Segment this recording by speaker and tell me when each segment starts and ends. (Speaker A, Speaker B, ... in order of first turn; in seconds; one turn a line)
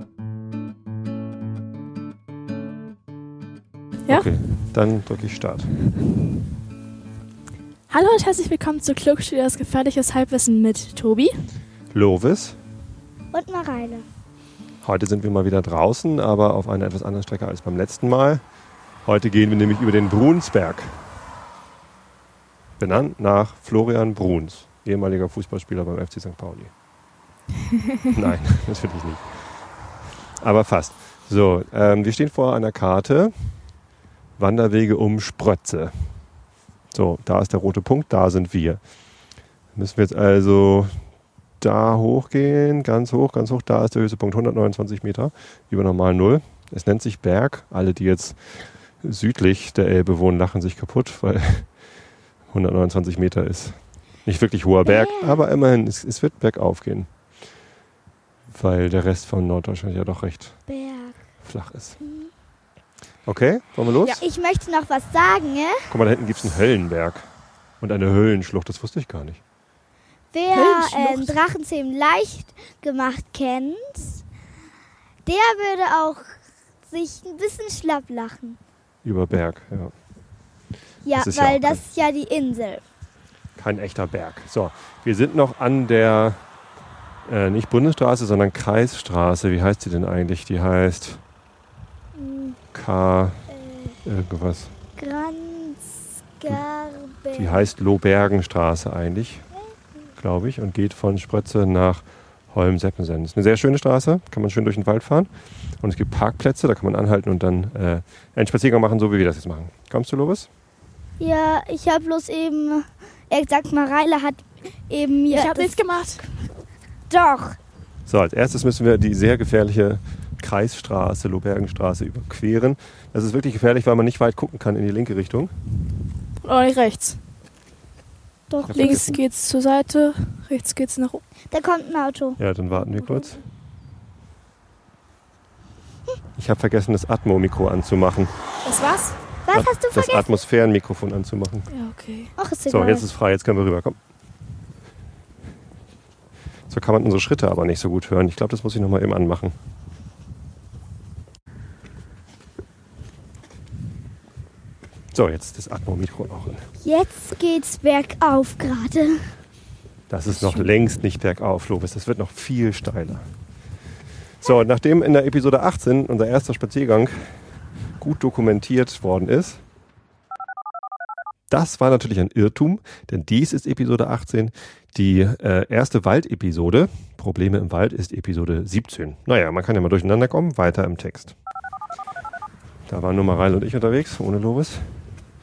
Speaker A: 4.1-5.7
Speaker B: 7.9-11.4
Speaker A: 11.9-12.6
Speaker C: 13.3-14.0
Speaker A: 14.8-18.4
Speaker A: 19.0-21.0
Speaker A: 22.8-26.7
Speaker A: 28.1-29.9
Speaker A: 30.4-33.5
Speaker A: 34.4-36.0
Speaker A: 36.9-38.8
Speaker A: 39.8-40.9
Speaker A: 41.6-51.8
Speaker A: 52.5-57.1
Speaker C: 54.8-55.4
Speaker A: 58.5-60.6
Speaker C: 60.7-61.2
Speaker A: 61.4-62.0
Speaker C: 62.0-62.3
Speaker A: 63.3-64.2
Speaker C: 64.2-65.9
Speaker A: 65.9-67.2
Speaker A: 67.8-69.4
Speaker C: 70.3-74.2
Speaker B: 70.5-71.4
Speaker C: 75.2-76.3
Speaker C: 76.9-78.6
Speaker A: 79.0-79.9
Speaker C: 81.0-82.8
Speaker A: 81.2-81.8
Speaker A: 83.6-86.4
Speaker A: 87.2-91.2
Speaker C: 92.2-92.6
Speaker A: 92.7-93.4
Speaker C: 93.5-93.9
Speaker A: 94.0-94.7
Speaker C: 95.0-97.7
Speaker A: 97.3-99.4
Speaker A: 100.2-105.3
Speaker A: 105.8-110.5
Speaker C: 111.2-115.8
Speaker B: 115.3-116.2
Speaker C: 117.1-117.6
Speaker A: 118.1-125.5
Speaker B: 126.4-127.2
Speaker C: 128.5-129.2
Speaker A: 128.7-129.2
Speaker B: 128.7-131.2
Speaker C: 131.5-132.4
Speaker A: 132.4-133.4
Speaker B: 132.9-133.3
Speaker A: 136.4-138.3
Speaker B: 138.6-139.2
Speaker C: 139.4-140.2
Speaker A: 139.5-141.7
Speaker B: 141.7-142.3
Speaker C: 142.4-143.1
Speaker A: 142.7-144.0
Speaker A: 146.7-149.6
Speaker A: 155.1-156.7
Speaker C: 156.8-159.2
Speaker A: 160.1-163.2
Speaker A: 164.4-167.4
Speaker A: 168.0-169.6
Speaker A: 171.5-181.3
Speaker A: 182.9-184.9